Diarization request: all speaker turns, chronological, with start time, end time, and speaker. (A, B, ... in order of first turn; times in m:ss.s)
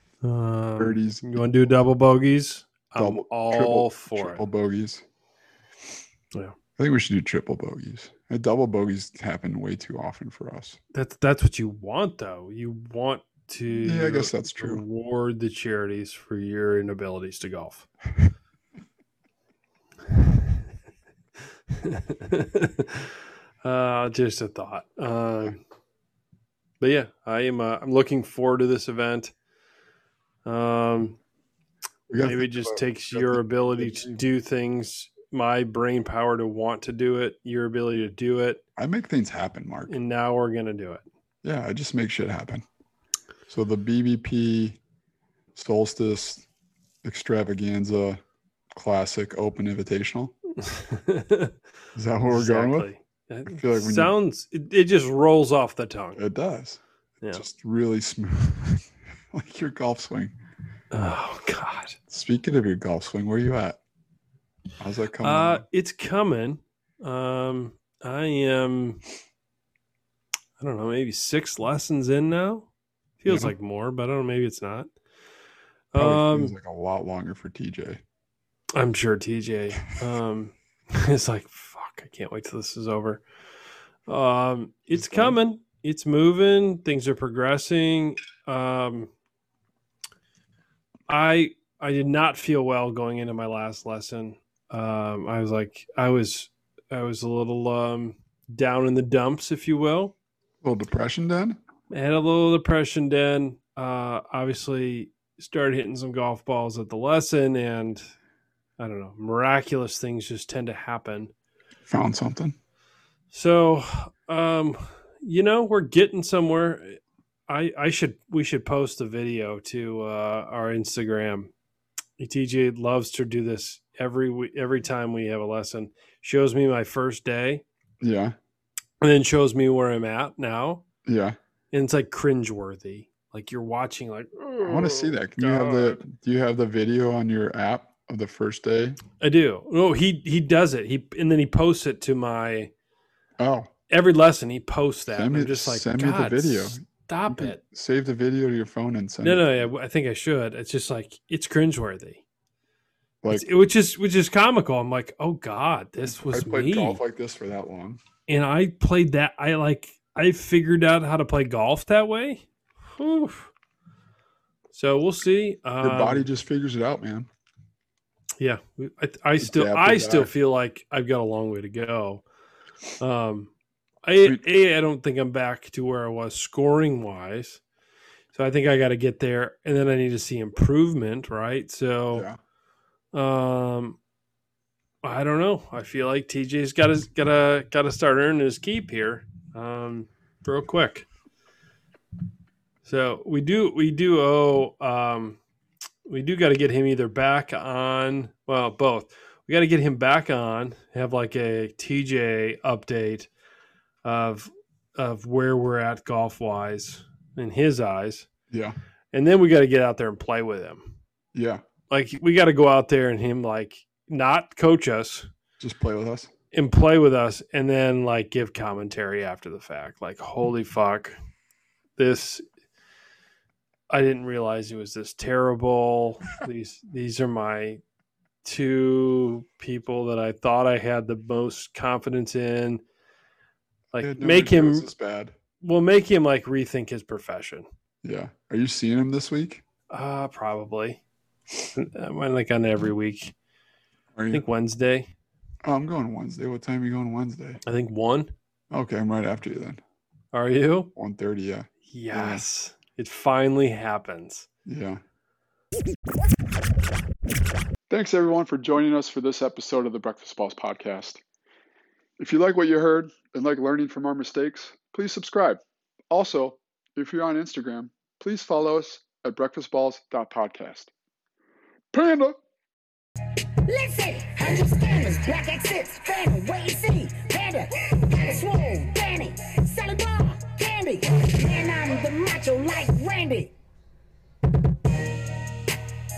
0:00.2-0:04.4 A
0:00.8-0:01.7 B
0:03.0-0:05.0 B
0:06.8-0:10.8 B
0:10.9-0:17.9 A
0:13.7-0:14.8 B
0:21.7-0:25.6 A
0:26.8-0:29.3 A
0:30.4-0:31.2 A
0:32.1-0:34.2 B
0:32.2-0:38.6 A
0:38.8-0:40.0 B
0:39.9-0:41.0 A
0:41.4-0:42.6 B
0:43.5-0:44.8 B
0:45.6-0:46.5 B
0:47.0-0:48.2 B
0:48.7-0:50.3 B
0:50.6-0:51.5 A
0:52.0-0:52.9 B
0:52.3-0:56.2 A
0:53.5-0:54.1 B
0:56.2-1:00.3 B
1:00.9-1:02.0 A
1:02.1-1:03.8 B
1:04.8-1:05.6 B
1:05.2-1:09.0 A
1:10.6-1:12.7 A
1:13.2-1:14.9 A
1:13.3-1:13.5 B
1:15.9-1:16.6 A
1:16.0-1:18.0 B
1:18.7-1:23.2 A
1:24.1-1:29.1 A
1:24.9-1:25.4 B
1:31.1-1:40.1 A
1:40.6-1:41.6 B
1:41.9-1:48.0 A
1:48.8-1:51.3 A
1:51.9-1:52.6 B
1:53.3-2:01.5 A
2:02.2-2:07.6 A
2:08.0-2:08.3 B
2:09.0-2:10.8 A
2:11.0-2:11.4 B
2:11.7-2:16.0 A
2:14.6-2:19.0 B
2:19.2-2:22.7 A
2:23.4-2:23.7 B
2:23.9-2:27.6 A
2:25.1-2:29.7 B
2:29.2-2:32.2 A
2:33.3-2:37.0 A
2:36.1-2:38.0 B
2:38.3-2:43.5 A
2:44.7-2:46.3 A
2:45.8-2:47.3 B
2:48.4-2:52.2 A
2:49.4-2:50.3 B
2:53.0-2:53.5 A
2:54.0-2:57.6 A
2:58.3-3:02.3 A
3:02.1-3:02.4 B
3:03.1-3:04.0 A
3:05.0-3:11.1 A
3:12.8-3:15.4 A
3:16.1-3:23.3 A
3:24.0-3:28.3 A
3:28.5-3:28.7 B
3:29.1-3:30.9 A
3:31.3-3:31.6 B
3:31.9-3:35.3 A
3:35.6-3:36.3 B
3:36.5-3:41.1 A
3:42.0-3:42.4 A
3:43.9-3:47.8 A
3:48.4-3:52.8 A
3:53.9-3:54.9 A
3:54.0-3:55.3 B
3:55.6-3:57.7 A
3:58.0-3:59.6 B
3:59.9-4:01.0 A
4:01.7-4:03.3 A
4:04.2-4:04.4 B
4:04.3-4:05.1 A
4:05.6-4:07.6 B
4:07.6-4:08.3 A
4:08.7-4:09.8 B
4:10.3-4:10.9 A
4:11.0-4:12.4 B
4:11.9-4:14.5 A
4:14.7-4:15.0 B
4:17.9-4:21.2 B
4:22.2-4:30.9 B
4:31.9-4:32.4 B
4:33.7-4:43.5 C